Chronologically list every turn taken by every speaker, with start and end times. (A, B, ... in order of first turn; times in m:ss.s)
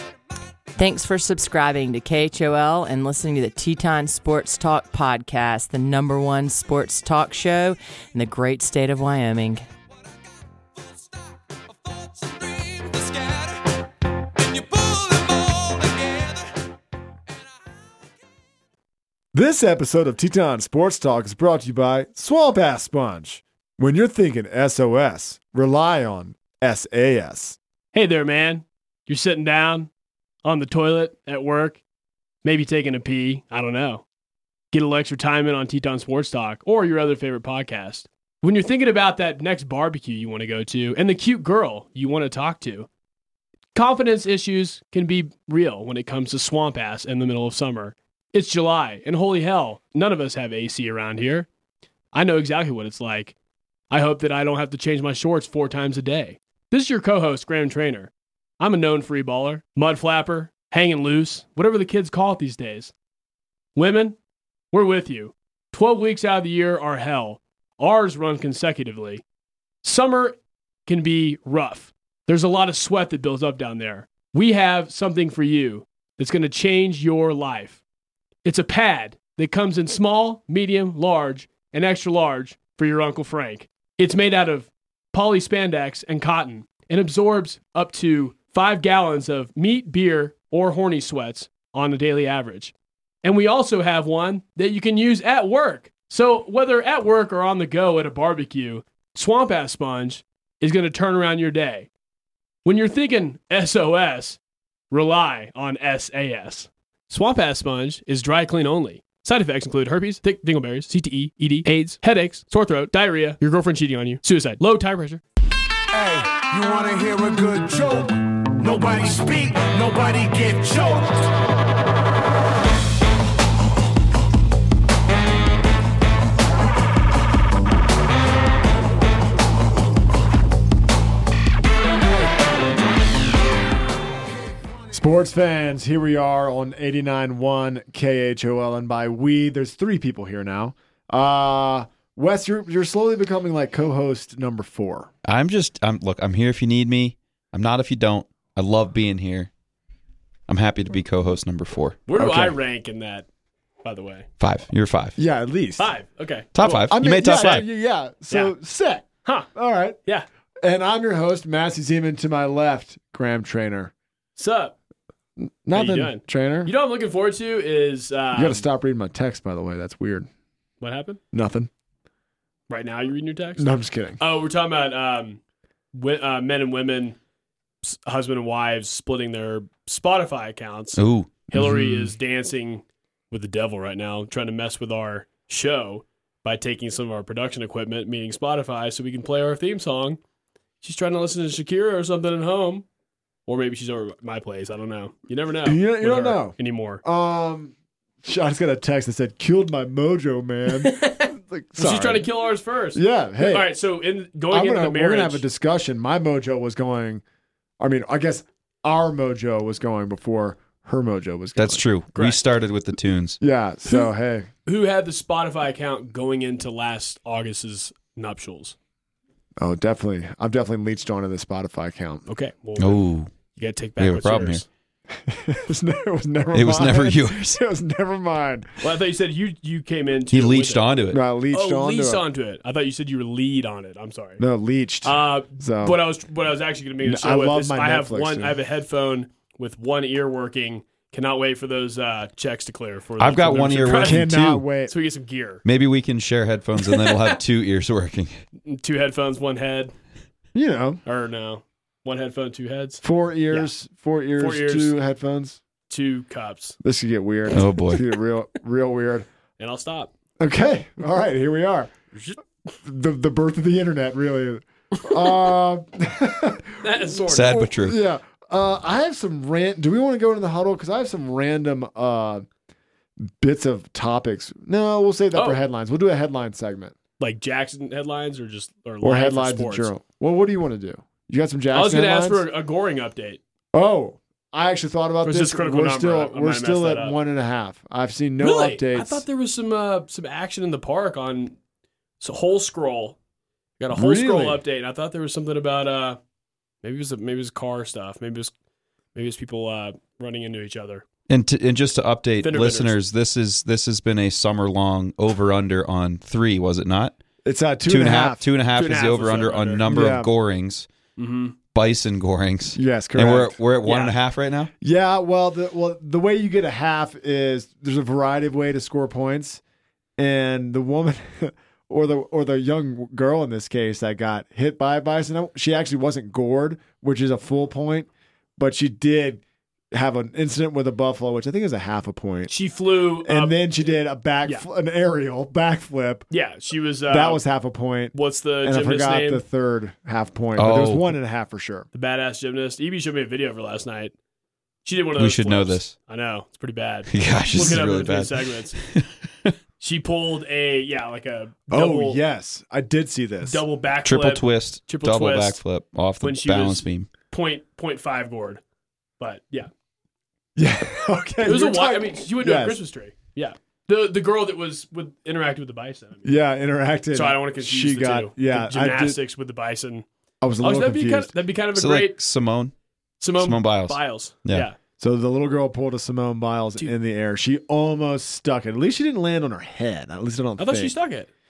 0:00.8-0:09.6 A
0:11.8-0:13.4 B
0:14.4-0:16.4 B
0:19.3-0:27.6 C
0:27.9-0:29.9 D
0:30.4-0:31.8 D
0:32.4-0:34.0 D
0:34.7-0:42.9 D
0:43.8-0:51.5 D
0:52.1-0:53.4 D
0:53.9-1:02.9 D
1:03.8-1:04.2 D
1:04.7-1:09.2 D
1:09.8-1:17.8 D
1:18.4-1:32.7 D
1:33.2-1:41.9 D
1:42.6-1:44.4 D
1:44.9-1:55.2 D
1:55.9-2:01.2 B
1:56.8-1:57.8 C
1:59.0-1:59.2 C
2:14.9-2:25.1 C
2:25.2-2:29.5 E
2:30.5-2:32.0 E
2:32.1-2:33.3 D
2:32.2-2:32.6 C
2:33.8-2:34.3 D
2:34.4-2:35.2 E
2:35.2-2:35.9 C
2:35.8-2:36.9 D
2:36.6-2:37.7 E
2:36.9-2:40.0 C
2:40.6-2:43.9 C
2:44.4-2:44.8 D
2:45.4-2:46.7 C
2:45.7-2:48.6 D
2:48.3-2:50.3 C
2:50.8-2:51.2 D
2:51.3-2:51.7 C
2:52.7-2:53.7 D
2:53.6-2:54.2 C
2:54.2-2:55.4 D
2:55.9-2:57.2 D
2:57.8-3:10.2 D
3:01.0-3:02.1 E
3:10.8-3:12.9 D
3:13.5-3:17.0 D
3:15.6-3:22.2 C
3:20.8-3:25.4 D
3:22.9-3:23.7 C
3:24.5-3:27.2 C
3:27.8-3:31.8 C
3:31.6-3:33.4 E
3:33.4-3:34.5 C
3:34.7-3:38.8 D
3:39.6-3:42.2 C
3:42.3-3:44.7 D
3:42.8-3:43.3 E
3:44.0-3:44.6 E
3:45.2-3:48.8 C
3:46.5-3:47.6 E
3:48.8-3:50.8 D
3:50.3-3:51.2 E
3:51.1-3:52.2 C
3:51.5-3:54.4 D
3:54.4-3:56.0 C
3:55.0-4:04.3 D
3:57.0-3:58.6 C
4:03.2-4:04.6 E
4:03.8-4:04.9 C
4:04.9-4:05.6 D
4:05.6-4:08.4 E
4:06.8-4:07.4 D
4:08.6-4:09.9 D
4:10.5-4:11.0 C
4:11.0-4:13.7 D
4:13.0-4:15.6 C
4:14.4-4:15.0 D
4:15.9-4:16.8 D
4:16.8-4:19.3 C
4:17.5-4:18.0 E
4:19.6-4:20.1 D
4:20.4-4:21.9 C
4:22.1-4:22.4 D
4:22.8-4:26.9 C
4:26.8-4:27.7 D
4:27.3-4:28.0 E
4:27.6-4:32.5 C
4:33.2-4:36.9 C
4:35.3-4:35.6 D
4:37.2-4:39.9 D
4:39.0-4:42.5 C
4:41.7-4:43.4 D
4:43.7-4:49.2 C
4:45.2-4:47.2 D
4:48.4-4:51.6 D
4:52.2-4:53.2 D
4:53.8-4:56.2 D
4:53.9-4:54.6 C
4:56.8-4:58.5 D
4:59.2-5:01.0 D
5:01.3-5:07.2 E
5:02.4-5:03.0 D
5:07.4-5:08.4 C
5:07.9-5:10.9 E
5:08.8-5:09.8 D
5:09.9-5:10.3 C
5:11.2-5:11.6 D
5:11.7-5:14.7 E
5:12.7-5:13.6 C
5:13.8-5:14.1 D
5:14.8-5:19.6 C
5:20.2-5:32.5 C
5:32.5-5:33.6 D
5:33.2-5:36.3 C
5:36.3-5:37.4 D
5:37.1-5:41.9 C
5:38.1-5:39.4 D
5:40.6-5:41.1 E
5:41.9-5:44.1 D
5:44.8-5:48.8 D
5:45.2-5:46.0 E
5:47.1-5:49.5 E
5:49.8-5:52.2 D
5:51.7-5:53.6 C
5:53.4-5:55.6 D
5:54.0-5:57.1 E
5:56.2-5:58.6 D
5:59.2-5:59.7 D
6:00.6-6:02.8 C
6:01.4-6:06.3 D
6:06.2-6:09.2 C
6:07.1-6:10.1 D
6:10.4-6:11.3 C
6:10.6-6:12.2 D
6:11.8-6:12.7 E
6:13.2-6:14.8 D
6:13.4-6:14.7 E
6:15.0-6:20.9 C
6:20.6-6:21.3 D